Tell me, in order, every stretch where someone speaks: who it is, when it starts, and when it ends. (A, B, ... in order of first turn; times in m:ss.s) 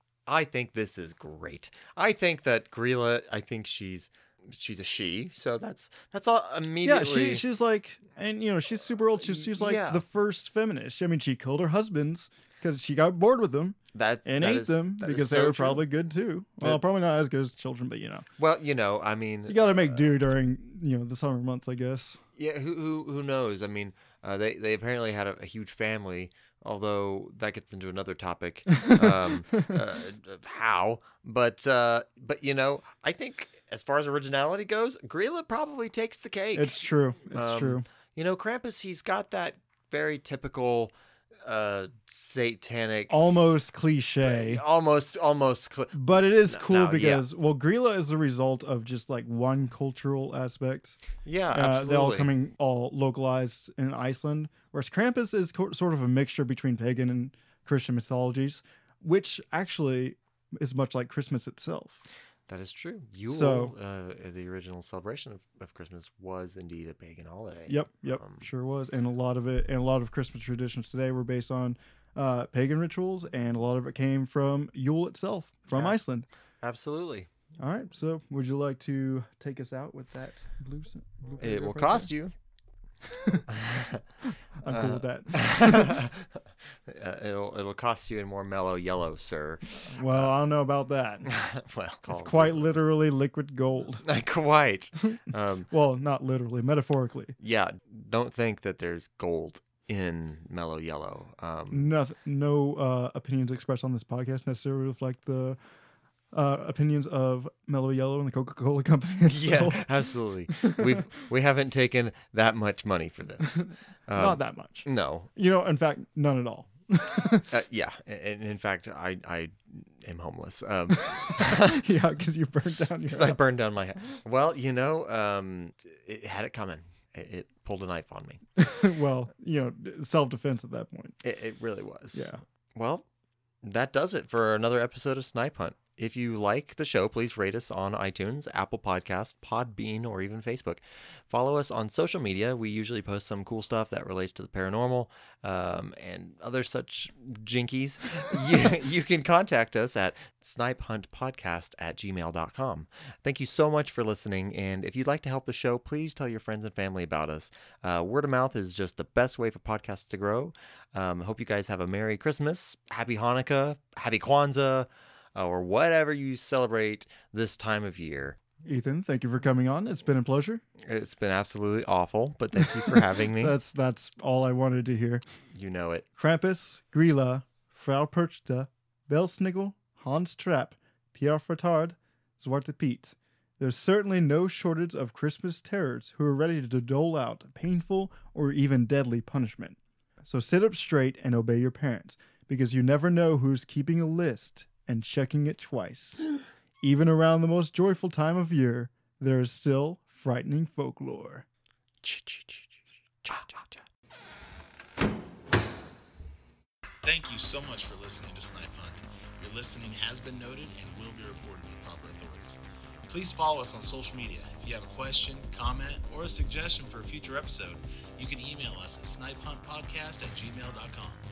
0:00.3-0:07.4 A
0:06.8-0:18.3 B
0:09.2-0:10.0 A
0:13.9-0:15.9 A
0:18.4-0:20.1 A
0:19.5-0:22.2 B
0:22.4-0:43.1 A
0:28.7-0:29.7 B
0:36.5-0:37.8 B
0:43.1-0:44.6 B
0:44.2-0:47.2 A
0:45.9-0:51.0 B
0:51.2-0:52.3 A
0:51.5-1:02.0 B
1:02.5-1:08.5 A
1:03.3-1:03.7 B
1:07.7-1:16.3 B
1:15.7-1:16.0 A
1:16.6-1:17.3 A
1:17.6-1:22.1 B
1:21.4-1:22.3 A
1:23.1-1:23.4 B
1:23.5-1:24.0 A
1:24.2-1:26.0 B
1:24.7-1:30.3 A
1:29.9-1:31.3 B
1:31.2-1:32.8 A
1:32.1-1:34.0 B
1:34.0-1:35.7 A
1:35.7-1:37.4 B
1:37.4-1:41.9 A
1:41.7-1:45.6 B
1:46.3-1:49.8 B
1:49.3-1:55.3 A
1:50.5-1:51.0 B
1:53.4-1:57.5 B
1:57.5-2:01.8 A
2:01.2-2:03.4 B
2:03.1-2:08.4 A
2:08.6-2:11.2 B
2:11.2-2:13.0 A
2:12.1-2:12.4 B
2:13.6-2:48.4 A
2:48.6-2:50.6 B
2:50.8-2:53.6 A
2:52.8-2:55.2 B
2:55.5-2:56.0 A
2:56.2-3:16.3 B
3:16.8-3:21.4 B
3:22.0-3:22.7 A
3:23.2-3:23.8 A
3:27.0-3:41.2 C